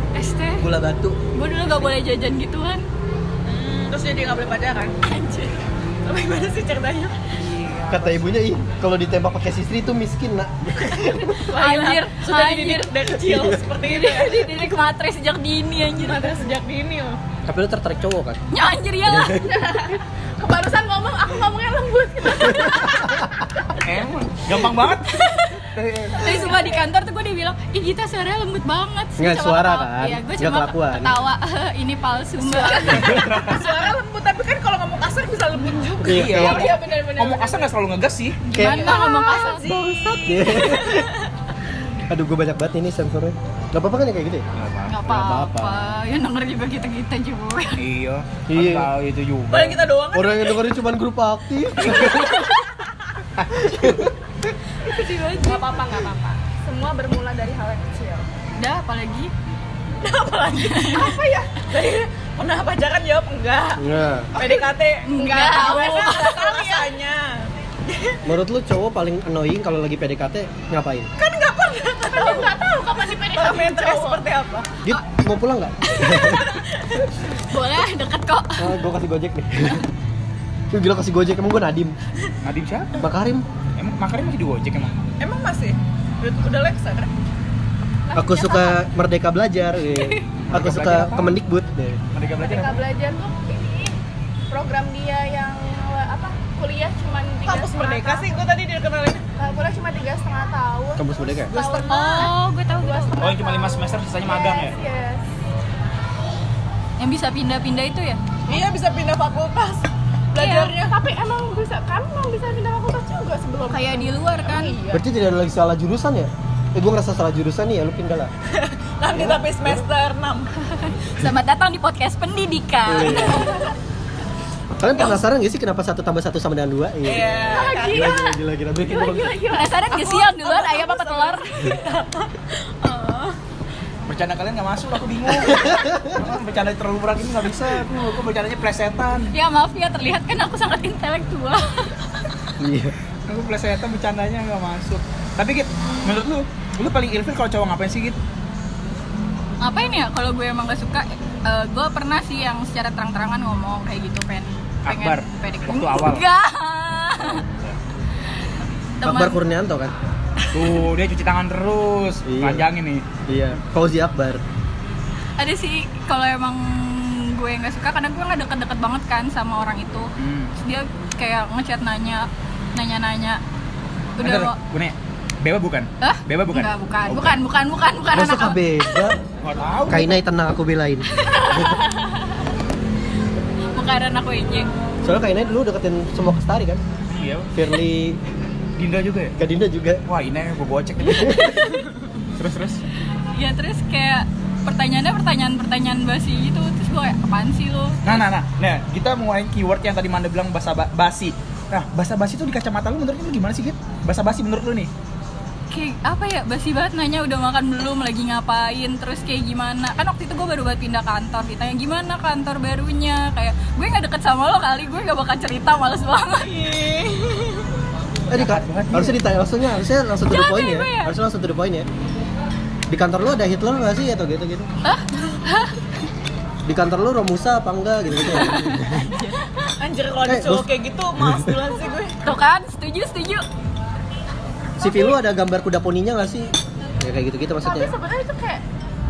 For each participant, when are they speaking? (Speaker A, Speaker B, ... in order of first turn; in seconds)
Speaker A: 0.1-0.7, 1.3-2.9, 5.0-5.6, 11.0-13.1, 13.8-16.4, 18.5-19.5, 26.2-33.4, 38.5-40.2, 44.9-47.8, 54.9-55.4, 58.6-59.3, 60.6-61.2, 65.1-66.8, 77.4-78.8, 101.9-103.1, 107.0-108.2, 110.4-110.7, 113.7-114.8, 120.6-123.7, 129.4-132.0, 139.3-142.2, 149.6-157.4, 159.0-159.4, 165.4-170.1, 170.6-173.4, 174.2-174.6, 176.0-178.6, 181.3-181.6, 183.8-184.7, 193.3-198.1, 205.7-216.6, 220.3-221.2, 224.8-225.8, 228.3-229.5, 232.2-233.4
Speaker B: 0.6-1.2, 7.9-11.5, 13.2-13.6, 17.5-18.4, 19.1-19.4, 29.2-31.1, 33.0-33.2, 36.0-36.7, 38.5-39.0, 40.2-41.1, 42.1-44.5, 45.0-45.8, 48.5-48.9, 50.1-52.6, 53.5-54.1, 63.8-64.3, 68.2-71.1, 74.8-76.6, 78.6-79.9, 80.7-82.0, 83.0-83.5, 88.2-92.0, 101.0-101.5, 114.9-118.3, 119.1-119.8, 122.9-123.5, 124.8-129.4, 135.4-136.2, 142.6-142.9, 159.0-159.9, 162.3-162.7, 163.3-164.4, 178.1-179.2, 179.9-181.8, 185.0-186.8, 187.5-188.2, 189.4-190.0, 191.1-191.7, 218.3-221.9, 222.9-224.7, 226.7-229.1, 230.3-231.6, 234.8-237.9
Speaker C: 3.5-5.0, 6.0-7.3, 11.5-14.8, 16.0-17.2, 26.3-26.7, 32.5-36.7, 38.5-41.3, 49.5-50.6, 52.1-52.6, 55.0-55.5, 60.0-63.8, 64.3-68.2, 71.2-72.6, 73.3-74.7, 76.2-76.9, 85.2-87.1, 97.5-99.2, 101.5-102.3, 108.5-111.0, 114.5-115.0, 118.5-120.5, 127.0-128.2, 129.9-133.4, 216.4-217.7, 229.7-232.2
Speaker D: 7.5-8.2, 23.8-26.5, 32.9-33.9, 36.1-38.6, 44.5-45.0, 47.8-49.9, 53.4-54.0, 82.4-83.1, 83.8-85.0, 90.5-91.4, 92.1-92.8, 103.2-104.7, 134.1-139.3, 143.3-148.2, 154.8-156.2, 157.2-157.8, 160.5-163.1, 170.2-170.5, 174.2-177.4, 179.4-180.2, 187.1-187.5, 188.8-189.3, 190.1-191.8, 192.4-192.8, 198.0-204.9, 218.3-219.2
Speaker E: 19.3-23.4, 32.5-33.0, 36.3-37.7, 55.4-58.3, 65.2-66.8, 72.0-74.2, 88.1-88.8, 92.4-93.9, 94.5-98.3, 99.4-105.2, 110.8-114.2, 127.5-130.0, 234.8-235.2, 237.6-238.6